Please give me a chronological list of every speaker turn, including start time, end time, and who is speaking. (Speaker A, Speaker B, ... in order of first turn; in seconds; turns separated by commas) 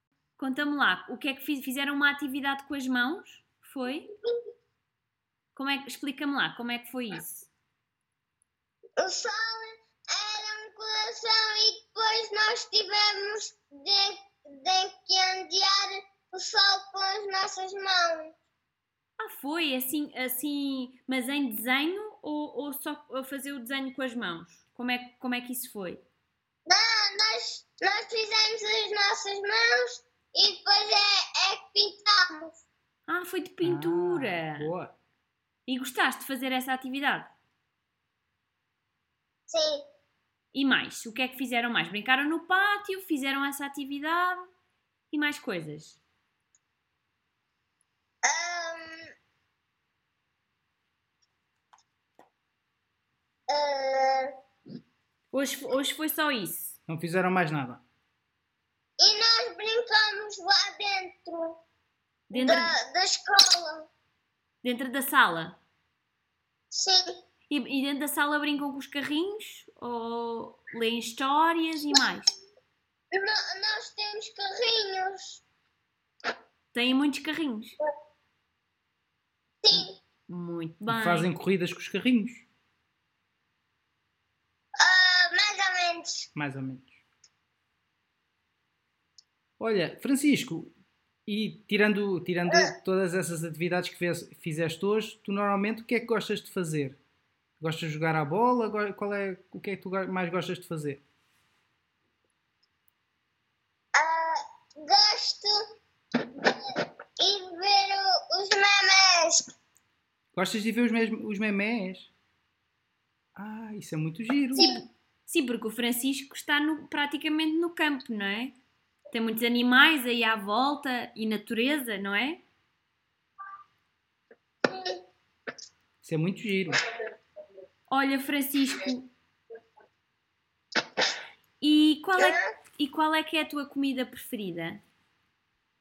Speaker A: 0.4-4.1, Speaker A: 5.5-7.5, Speaker B: 9.0-18.3, Speaker A: 19.2-26.0, Speaker B: 26.7-32.5, Speaker A: 33.1-34.7, Speaker C: 33.6-34.9, Speaker A: 35.7-37.3, Speaker B: 39.5-39.9, Speaker A: 40.5-44.5, Speaker A: 45.1-46.0, Speaker B: 48.2-49.1, Speaker B: 53.5-54.3, Speaker A: 55.3-56.8, Speaker C: 56.9-57.8, Speaker B: 59.0-61.6, Speaker A: 62.3-62.7, Speaker B: 62.3-63.9, Speaker A: 64.6-65.6, Speaker B: 66.7-67.2, Speaker A: 67.5-72.3, Speaker B: 73.1-75.4, Speaker A: 76.7-77.8, Speaker B: 79.6-80.0, Speaker A: 80.3-81.3, Speaker C: 80.9-82.4, Speaker B: 84.8-86.3, Speaker C: 86.3-87.0, Speaker C: 89.6-90.7, Speaker C: 91.2-97.0, Speaker B: 92.5-92.7, Speaker C: 97.6-101.0, Speaker B: 103.9-105.6, Speaker B: 107.2-109.5, Speaker C: 110.3-112.1, Speaker C: 113.3-114.8, Speaker B: 114.5-114.8, Speaker A: 115.3-118.5, Speaker A: 119.1-122.4, Speaker B: 124.7-125.0, Speaker C: 126.0-126.8, Speaker A: 127.9-129.1, Speaker A: 131.6-134.8, Speaker B: 132.2-132.4